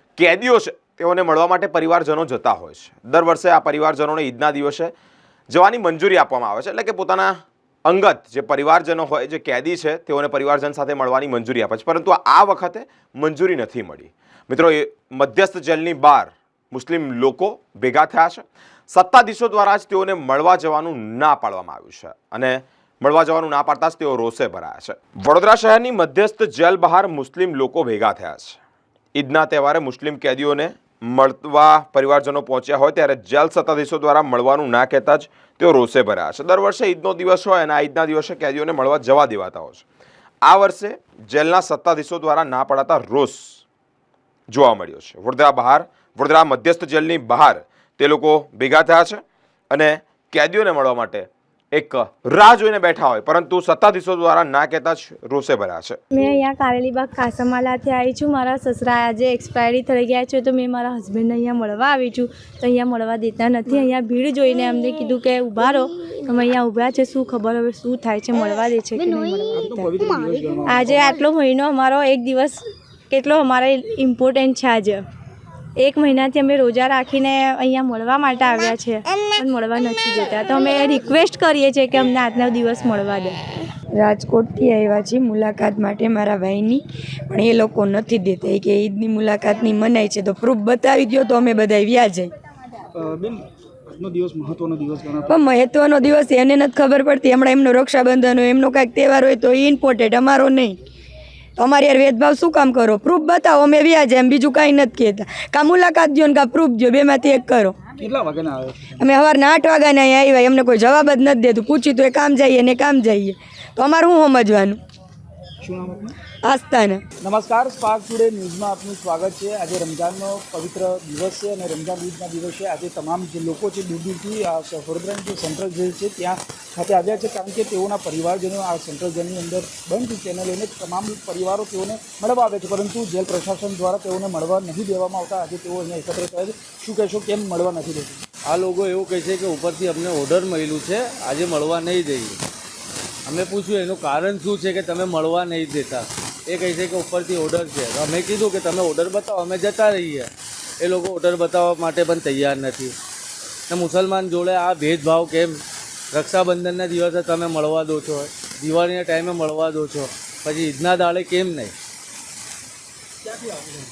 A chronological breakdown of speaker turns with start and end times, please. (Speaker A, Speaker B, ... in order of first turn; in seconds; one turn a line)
Speaker A: 0.2-4.9
Speaker A: 5.5-7.3
Speaker A: 7.8-28.6
Speaker A: 29.1-39.8
Speaker A: 40.4-43.6
Speaker A: 44.5-56.0
Speaker B: 56.1-69.9
Speaker C: 69.5-71.2
Speaker B: 70.7-75.0
Speaker B: 75.8-83.4
Speaker D: 84.0-92.3
Speaker C: 92.9-95.3
Speaker D: 95.3-100.8
Speaker D: 101.6-107.8
Speaker C: 108.0-109.0
Speaker D: 109.0-114.8
Speaker C: 115.6-116.2
Speaker D: 116.5-117.0
Speaker C: 117.2-138.2
Speaker E: 138.5-142.4
Speaker E: 143.2-150.3
Speaker E: 150.8-152.9
Speaker E: 153.7-155.6
Speaker E: 156.1-161.7
Speaker C: 163.3-163.8